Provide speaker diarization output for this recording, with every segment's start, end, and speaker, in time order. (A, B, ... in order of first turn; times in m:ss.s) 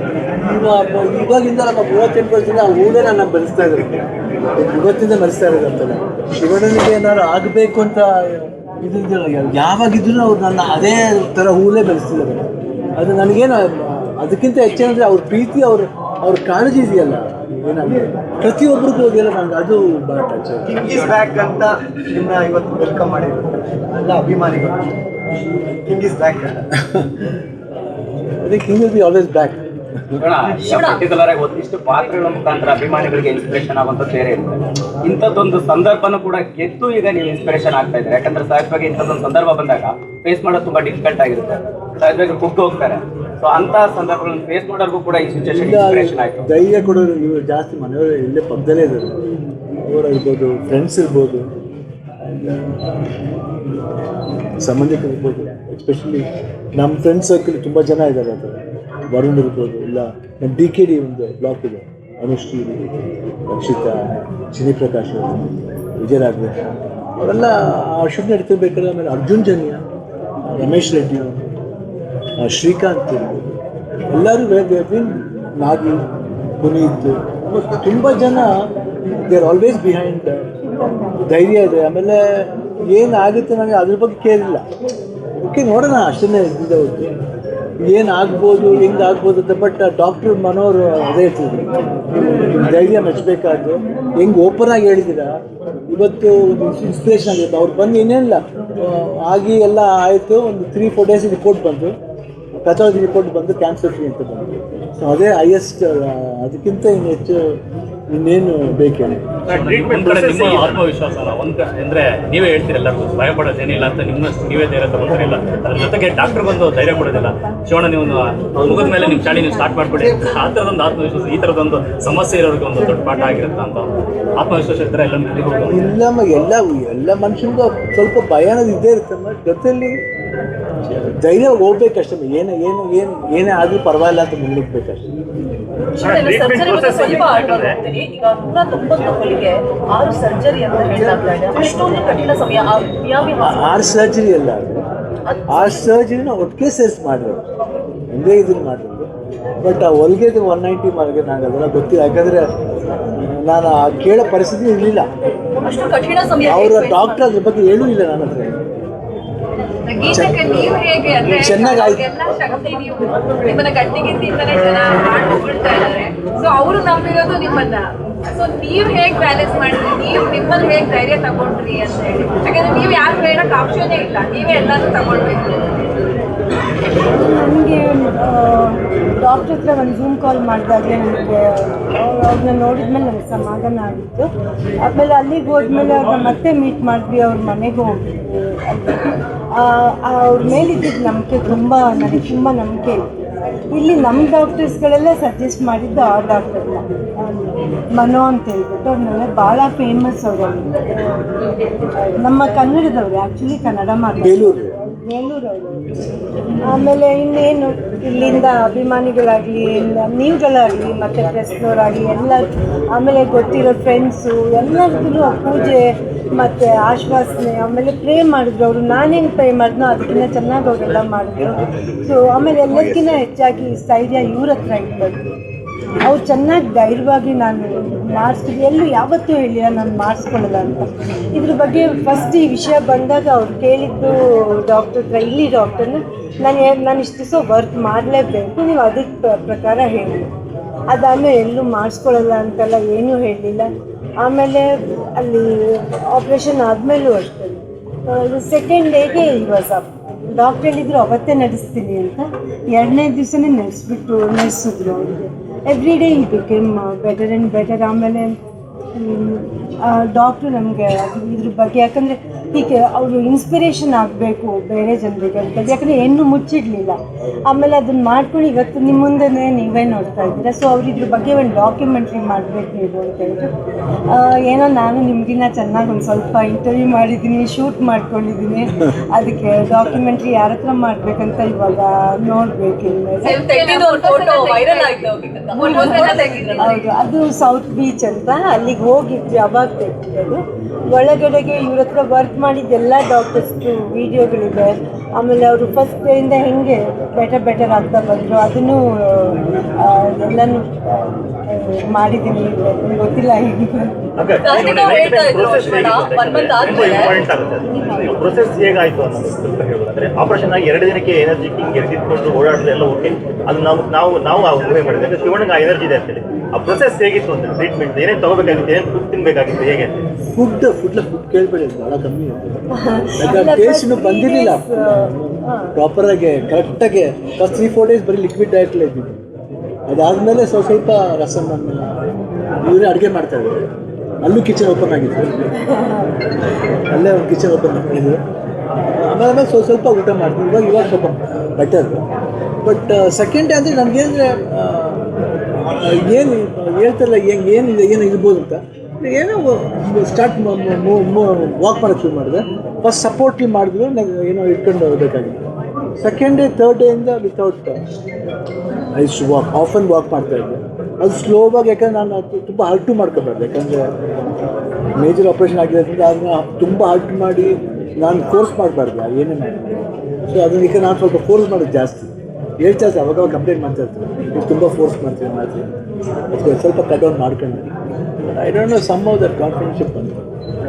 0:00.4-0:04.0 A
0:04.6-0:20.8 A
0:20.6-0:24.8 B
0:25.9-0:26.6 B
0:26.8-0:27.2 A
0:28.4-0:30.2 A
0:30.2-0:46.6 C
0:30.7-0:31.0 D
0:45.5-0:49.2 A
0:49.8-0:51.5 A
0:52.2-0:52.9 A
0:54.6-0:58.6 A
0:59.1-1:02.9 A
1:03.5-1:06.6 A
1:07.2-1:09.8 A
1:10.5-1:11.4 A
1:12.4-1:13.4 A
1:14.1-1:16.0 A
1:16.6-1:18.6 A
1:19.2-1:20.5 A
1:21.2-1:24.6 A
1:25.4-1:27.1 A
1:27.8-1:35.4 A
1:35.9-1:42.0 A
1:42.6-1:49.4 A
1:49.5-1:50.8 E
1:49.5-2:05.8 F
2:05.7-2:10.0 A
2:10.7-2:15.1 A
2:16.0-2:24.0 D
2:16.0-2:17.8 E
2:23.4-2:24.8 A
2:25.3-2:25.8 D
2:25.5-2:27.4 A
2:28.1-2:29.1 A
2:29.6-2:35.1 A
2:35.6-2:37.2 D
2:36.4-2:38.6 A
2:39.9-2:55.6 G
2:40.0-2:42.0 A
2:57.1-3:04.3 H
3:04.8-3:13.1 H
3:13.7-3:20.8 H
3:22.0-3:25.8 H
3:24.2-3:24.7 A
3:26.7-3:45.2 H
3:41.4-3:43.2 A
3:46.0-4:00.3 H
4:00.9-4:03.7 H
4:04.2-4:18.4 H
4:18.9-4:33.5 H
4:34.1-4:43.4 H
4:43.2-4:46.9 G
4:43.3-4:46.5 D
4:45.6-4:46.1 H
4:46.6-5:04.0 H
5:04.2-5:19.9 E
5:04.4-5:07.2 D
5:04.5-5:05.1 F
5:06.6-5:06.9 F
5:07.7-5:08.4 H
5:20.3-5:22.6 A
5:22.8-5:25.7 H
5:23.2-5:29.2 A
5:29.9-5:32.0 A
5:32.6-5:33.7 A
5:34.2-5:35.5 A
5:35.7-5:36.1 H
5:36.9-5:38.2 A
5:38.9-5:42.0 A
5:42.6-5:45.0 A
5:45.6-5:55.4 A
5:56.0-5:57.8 A
5:58.9-6:03.9 A
6:04.9-6:09.7 A
6:10.3-6:15.7 A
6:16.3-6:17.7 A
6:18.2-6:20.2 A